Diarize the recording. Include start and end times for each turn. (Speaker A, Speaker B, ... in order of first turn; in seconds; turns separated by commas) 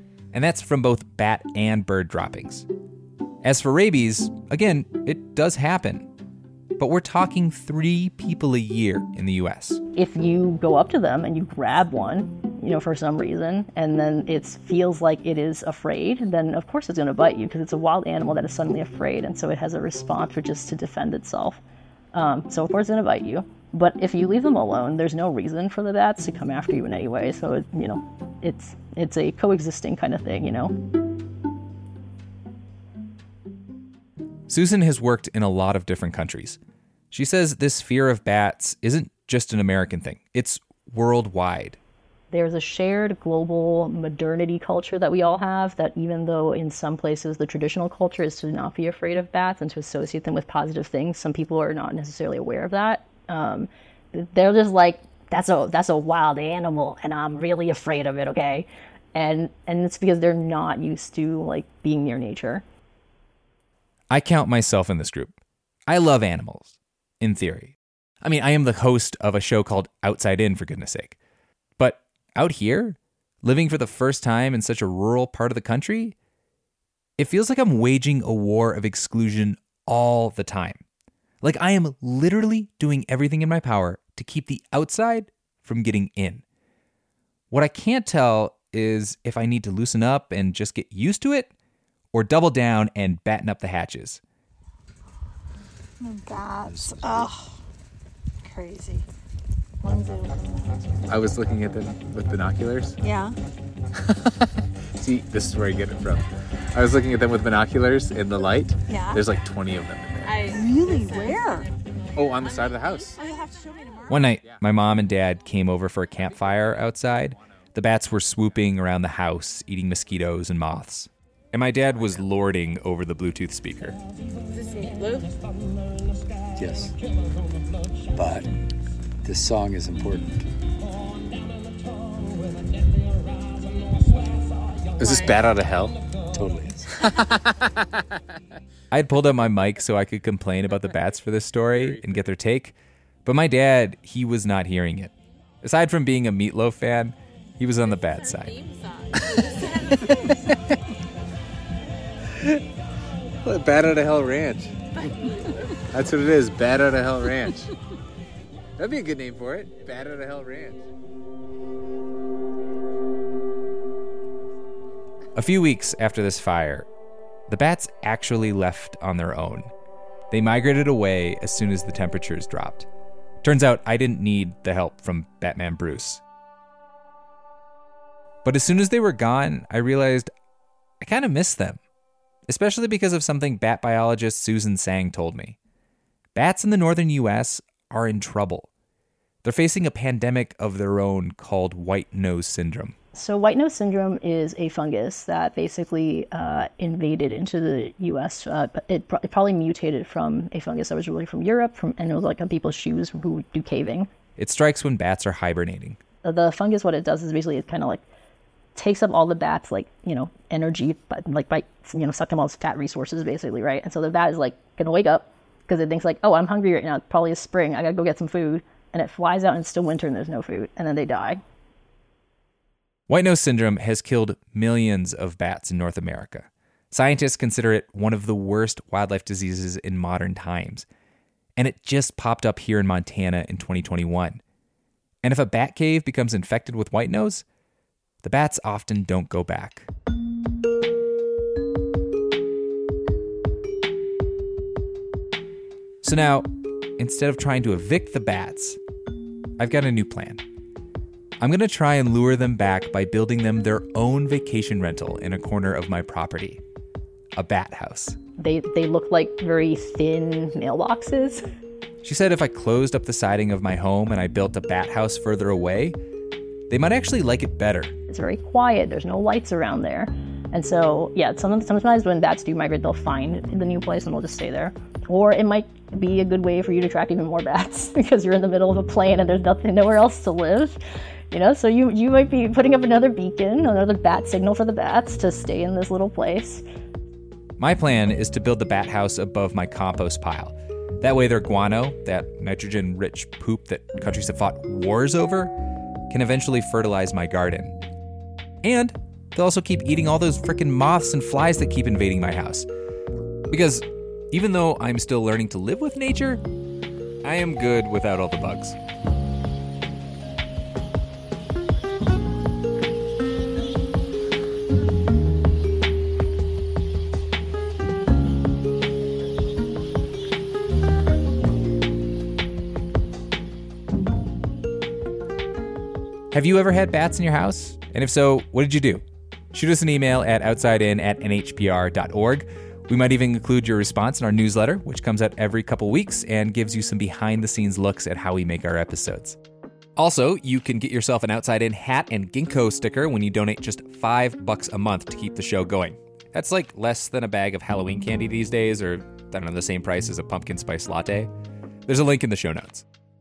Speaker A: 0.3-2.7, Speaker A: 3.4-6.1, Speaker A: 6.8-9.8, Speaker B: 9.9-21.6, Speaker B: 22.1-30.7, Speaker A: 34.5-36.6, Speaker A: 37.1-41.8, Speaker B: 42.3-62.6, Speaker A: 64.1-71.2, Speaker A: 71.8-76.2, Speaker A: 77.2-80.8, Speaker A: 81.4-86.4, Speaker A: 87.5-91.5, Speaker A: 92.1-94.2, Speaker C: 96.0-97.6, Speaker D: 96.7-97.3, Speaker C: 98.4-99.0, Speaker C: 99.8-100.8, Speaker E: 101.1-103.0, Speaker C: 103.0-103.3, Speaker E: 104.0-104.3, Speaker E: 105.0-110.4, Speaker C: 108.9-109.2, Speaker C: 110.2-111.7, Speaker E: 112.2-113.2, Speaker C: 112.4-114.3, Speaker A: 114.1-124.0, Speaker D: 126.5-127.0, Speaker D: 128.1-128.5, Speaker D: 129.2-130.5, Speaker E: 135.0-136.0, Speaker D: 136.3-136.9, Speaker E: 136.9-137.7, Speaker A: 138.9-148.7, Speaker E: 141.8-142.1, Speaker A: 149.3-150.2, Speaker E: 153.4-154.7, Speaker E: 155.9-157.7, Speaker E: 158.8-160.8, Speaker A: 165.3-166.9, Speaker A: 167.5-169.7, Speaker A: 170.3-172.9, Speaker A: 173.4-176.2, Speaker A: 178.4-180.3, Speaker A: 181.0-181.8, Speaker A: 182.5-185.6, Speaker A: 186.3-188.7, Speaker A: 189.4-192.9, Speaker B: 193.1-204.1, Speaker A: 204.4-206.0, Speaker B: 206.2-208.0, Speaker B: 208.8-221.4, Speaker A: 223.1-230.8, Speaker A: 231.6-234.4, Speaker A: 235.2-237.4, Speaker A: 238.2-239.9, Speaker A: 246.0-248.8, Speaker A: 249.6-250.4, Speaker A: 251.4-256.6, Speaker A: 257.3-258.2, Speaker B: 258.4-261.4, Speaker A: 262.0-266.0, Speaker A: 266.7-267.9, Speaker B: 268.1-280.8, Speaker B: 281.3-286.6, Speaker A: 287.6-295.5, Speaker A: 296.1-297.8, Speaker A: 298.6-302.7, Speaker A: 303.5-306.4, Speaker A: 307.2-308.8, Speaker A: 326.3-339.4, Speaker A: 339.9-351.3, Speaker A: 351.9-352.8